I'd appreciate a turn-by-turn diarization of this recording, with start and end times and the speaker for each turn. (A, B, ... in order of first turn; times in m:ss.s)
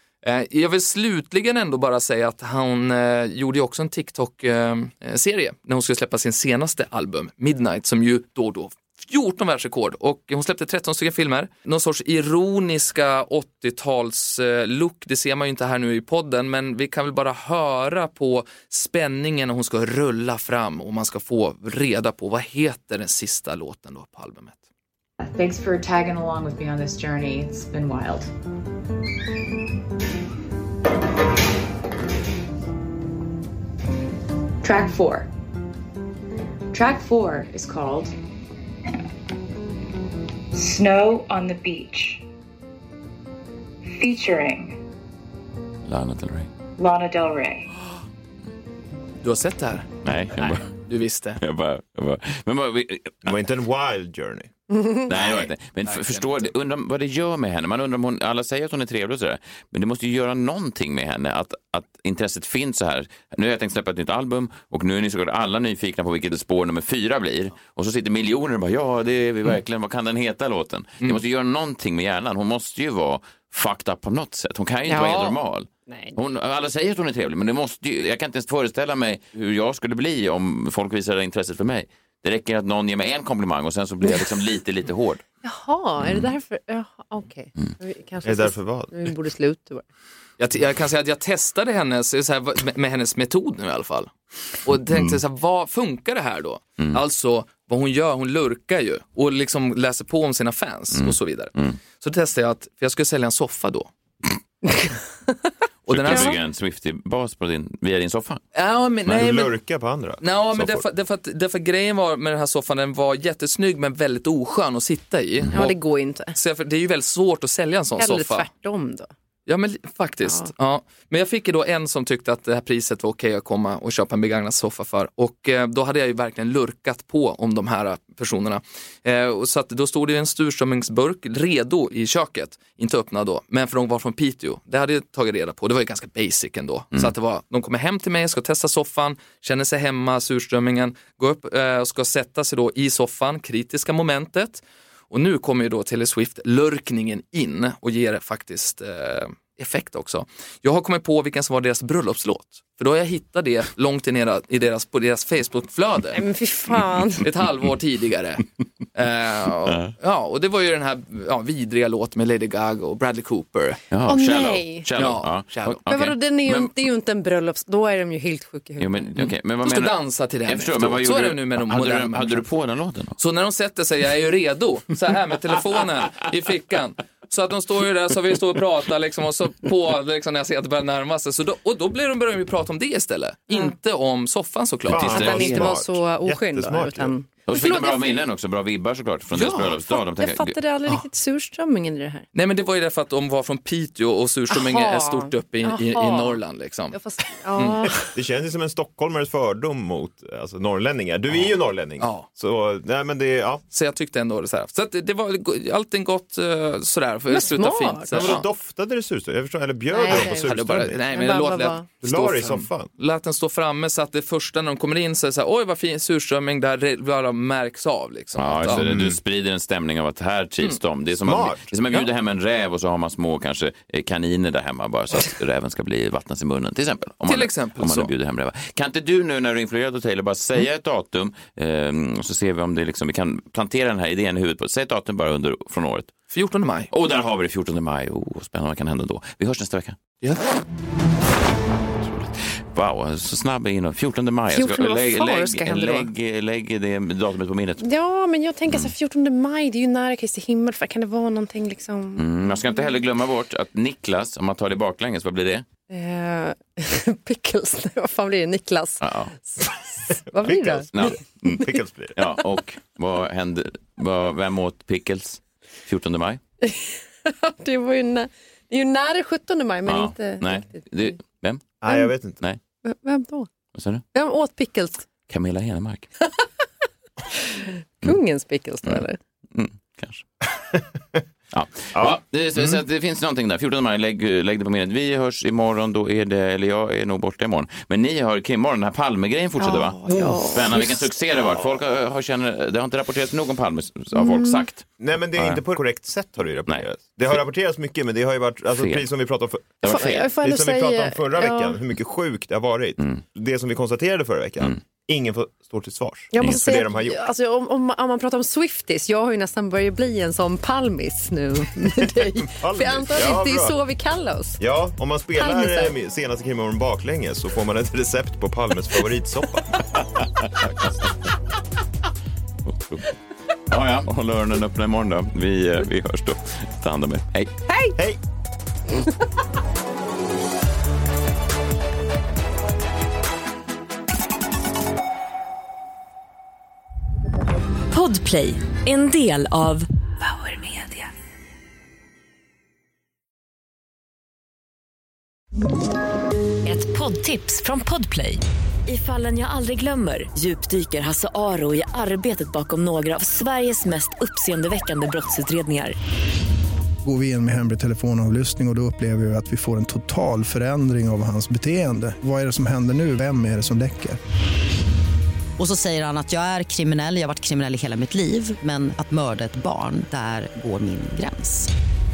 0:00.2-0:24.6 A
0:25.2-0:28.3 B
0:34.6-0:35.3 B
0:36.7-0:38.1 B
0:40.5-0:42.2 B
0:43.8-0:44.8 B
0:45.8-0:46.5 C
0:46.8-0:47.7 B
0:49.2-0:51.4 A
0:50.0-0:50.7 C
0:51.4-0:53.3 C
0:53.2-0:54.5 D
0:55.1-1:25.2 C
0:55.1-0:56.5 A
1:14.9-1:16.2 E
1:25.4-1:29.8 E
1:26.0-1:26.3 C
1:28.2-1:28.9 D
1:30.4-1:34.1 A
1:34.6-1:43.9 A
1:40.9-1:41.8 C
1:45.9-1:46.3 A
1:45.9-1:48.4 C
1:46.1-1:46.3 E
1:48.5-1:49.5 A
1:49.1-1:50.8 D
1:50.2-1:55.8 A
1:55.5-1:56.4 E
1:56.3-1:58.5 A
1:58.0-1:59.1 E
1:59.5-2:36.2 A
2:36.1-2:37.2 E
2:37.2-2:38.4 A
2:38.9-2:43.8 A
2:43.9-2:46.7 C
2:44.0-2:44.9 E
2:45.0-2:45.8 A
2:45.9-2:49.1 E
2:48.8-2:49.9 C
2:49.6-2:52.4 A
2:50.5-2:53.2 C
2:53.2-3:05.6 A
3:04.9-3:07.1 D
3:04.9-3:05.6 C
3:05.1-3:08.2 E
3:07.4-3:10.6 C
3:09.3-3:09.7 A
3:09.9-3:12.2 E
3:12.3-3:17.0 A
3:14.5-3:16.4 E
3:16.9-3:18.1 E
3:18.1-3:23.6 D
3:22.0-3:22.3 A
3:23.7-3:28.4 A
3:27.3-3:28.1 E
3:28.1-3:31.0 D
3:29.9-3:30.5 E
3:30.1-3:38.8 A
3:31.1-3:31.8 E
3:32.0-3:32.9 D
3:38.4-3:56.1 C
3:38.7-3:39.2 D
3:41.2-3:41.6 D
3:47.3-3:48.1 A
3:56.3-3:56.9 A
3:56.9-4:00.0 C
4:02.0-4:07.8 C
4:04.5-4:06.1 E
4:07.8-4:12.2 E
4:12.2-4:15.6 C
4:15.9-4:21.2 E
4:19.0-4:19.3 C
4:20.4-4:22.2 D
4:20.9-4:26.4 C
4:26.6-4:30.9 E
4:29.8-4:31.8 C
4:31.8-4:32.4 D
4:32.8-4:33.5 E
4:33.7-4:34.0 C
4:34.1-4:35.0 E
4:35.3-4:36.1 C
4:37.3-4:39.2 E
4:39.5-4:40.2 C
4:40.7-4:41.2 D
4:41.5-4:55.6 C
4:41.9-4:42.8 D
4:49.6-4:51.0 E
4:54.1-4:54.7 E
4:55.0-5:07.2 D
4:58.8-4:59.0 C
4:59.8-5:00.3 C
4:59.8-5:01.8 E
5:06.3-5:14.6 E
5:12.3-5:13.8 D
5:14.6-5:19.8 D
5:15.4-5:15.9 E
5:19.9-5:21.1 C
5:22.6-5:23.0 C
5:23.7-5:27.5 C
5:27.7-5:27.9 E
5:37.9-5:41.1 F
5:46.6-5:56.0 F
5:57.0-6:04.2 G
6:05.6-6:11.7 H